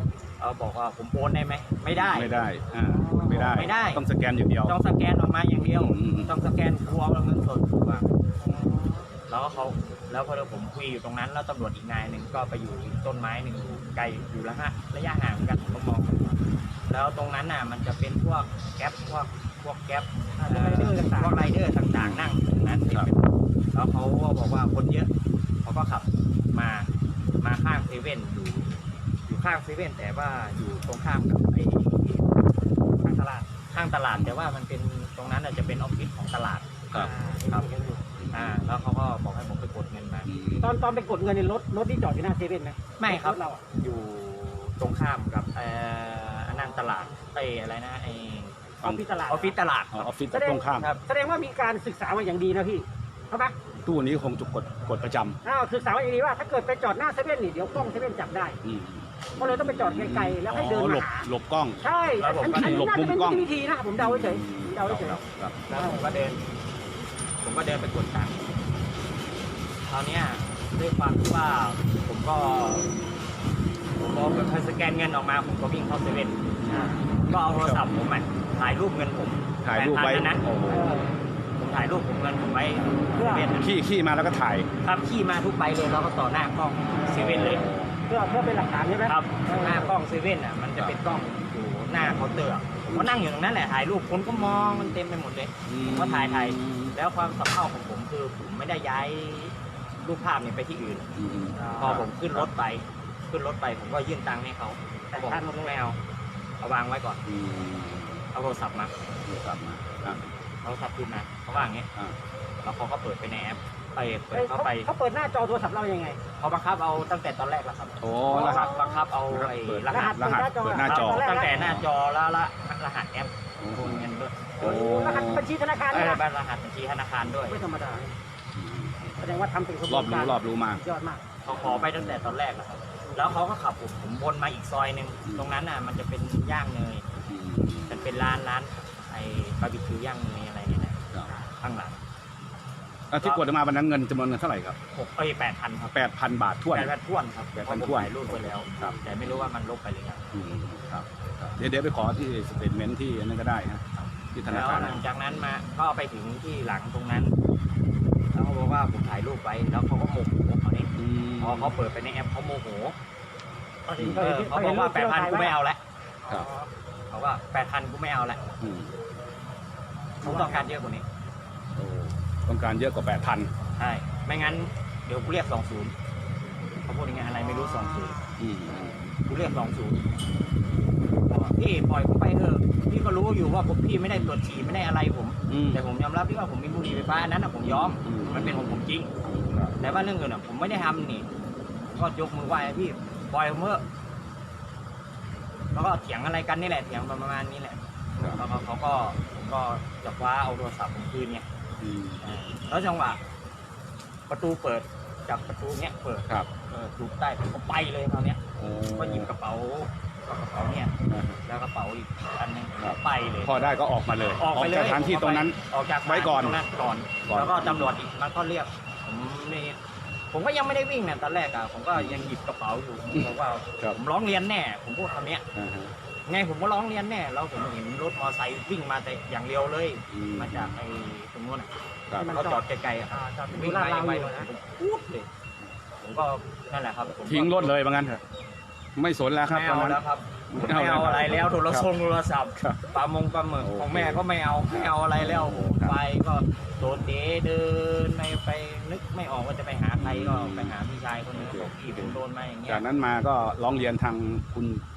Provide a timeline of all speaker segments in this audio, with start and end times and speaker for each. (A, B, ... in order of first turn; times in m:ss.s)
0:00.4-0:02.5 A
0:01.9-0:04.8 B
0:02.8-0:03.7 C
0:03.3-0:04.0 A
0:04.6-0:08.1 A
0:05.6-0:06.4 B
0:08.4-0:09.1 C
0:09.3-0:23.2 A
0:20.4-0:21.5 C
0:21.9-0:23.1 B
0:23.7-0:25.1 A
0:25.6-0:26.9 A
0:27.4-0:32.2 A
0:33.0-0:33.5 C
0:33.7-0:36.8 A
0:34.2-0:34.5 B
0:36.9-0:38.0 C
0:38.2-0:38.6 B
0:38.3-0:40.3 A
0:40.2-0:40.7 B
0:40.6-0:43.6 C
0:43.0-0:48.7 A
0:46.5-0:47.2 C
0:48.8-0:49.5 C
0:49.3-0:50.1 A
0:49.9-0:50.9 B
0:50.3-0:53.5 C
0:50.8-0:51.0 A
0:53.8-0:55.4 B
0:55.4-0:58.6 C
0:58.6-1:01.8 B
0:59.4-1:01.3 C
1:01.8-1:05.2 C
1:02.2-1:02.9 A
1:02.5-1:05.6 B
1:05.7-1:06.4 A
1:05.7-1:06.0 C
1:07.4-1:08.4 A
1:09.8-1:13.0 A
1:14.0-1:20.4 A
1:16.6-1:18.0 B
1:19.6-1:21.0 B
1:20.7-1:21.2 C
1:21.6-1:23.7 A
1:23.2-1:23.6 C
1:23.6-1:24.7 B
1:24.8-1:27.7 A
1:27.1-1:27.9 B
1:28.1-1:30.0 C
1:29.0-1:41.1 A
1:32.8-1:33.1 B
1:34.3-1:35.0 B
1:35.6-1:37.0 B
1:41.2-1:42.4 B
1:41.6-1:42.1 C
1:41.8-1:46.0 A
1:45.1-1:45.8 C
1:46.6-1:47.2 A
1:47.2-1:48.2 B
1:48.3-1:48.9 A
1:49.2-1:50.3 B
1:50.6-1:51.9 A
1:52.6-1:54.9 A
1:54.3-1:56.2 C
1:56.4-2:00.3 A
1:58.0-1:58.7 B
1:58.3-1:59.0 C
1:59.3-2:01.8 B
1:59.9-2:01.5 C
2:00.8-2:04.8 A
2:03.6-2:04.1 B
2:04.6-2:06.2 C
2:04.6-2:05.4 B
2:05.9-2:07.6 A
2:07.5-2:08.1 C
2:08.5-2:09.3 B
2:09.2-2:11.2 C
2:09.9-2:10.8 B
2:11.4-2:17.0 A
2:11.5-2:12.3 B
2:13.1-2:13.3 C
2:15.2-2:15.5 B
2:17.3-2:18.1 B
2:17.9-2:21.0 A
2:21.2-2:21.5 C
2:21.6-2:22.0 A
2:23.1-2:24.8 B
2:24.9-2:26.0 A
2:25.9-2:26.9 B
2:26.7-2:30.2 A
2:27.6-2:29.5 B
2:30.3-2:33.8 B
2:34.0-2:37.3 A
2:34.3-2:35.0 B
2:38.3-2:42.9 A
2:41.0-2:41.7 B
2:43.9-2:45.6 C
2:44.0-2:44.2 B
2:44.0-2:45.8 A
2:46.2-2:46.7 C
2:47.1-2:48.4 A
2:48.6-2:48.9 B
2:50.2-2:50.7 C
2:50.2-2:51.0 A
2:51.8-2:53.5 B
2:53.8-2:55.9 A
2:56.8-2:58.2 A
2:57.2-2:59.0 C
2:58.4-2:59.1 B
2:59.0-3:00.0 A
3:01.3-3:09.1 A
3:05.5-3:05.8 B
3:07.6-3:08.6 B
3:09.2-3:09.7 B
3:09.8-3:11.3 A
3:11.9-3:13.8 A
3:15.7-3:21.4 A
3:21.8-3:22.3 B
3:22.2-3:23.2 A
3:24.3-3:30.9 A
3:28.6-3:29.3 B
3:31.1-3:31.4 B
3:31.4-3:33.7 A
3:32.8-3:36.6 B
3:34.2-3:39.8 A
3:37.2-3:37.9 B
3:40.3-3:45.4 A
3:41.9-3:42.3 B
3:43.1-3:44.0 B
3:45.5-3:45.9 B
3:46.3-3:51.7 A
3:50.1-3:50.8 B
3:52.2-3:54.5 C
3:52.2-3:55.3 A
3:56.0-3:57.7 A
3:57.2-3:58.2 B
3:59.0-4:00.0 B
3:59.5-4:12.8 A
4:00.5-4:01.8 B
4:02.6-4:03.0 B
4:03.6-4:05.9 B
4:10.0-4:10.7 B
4:11.3-4:14.8 B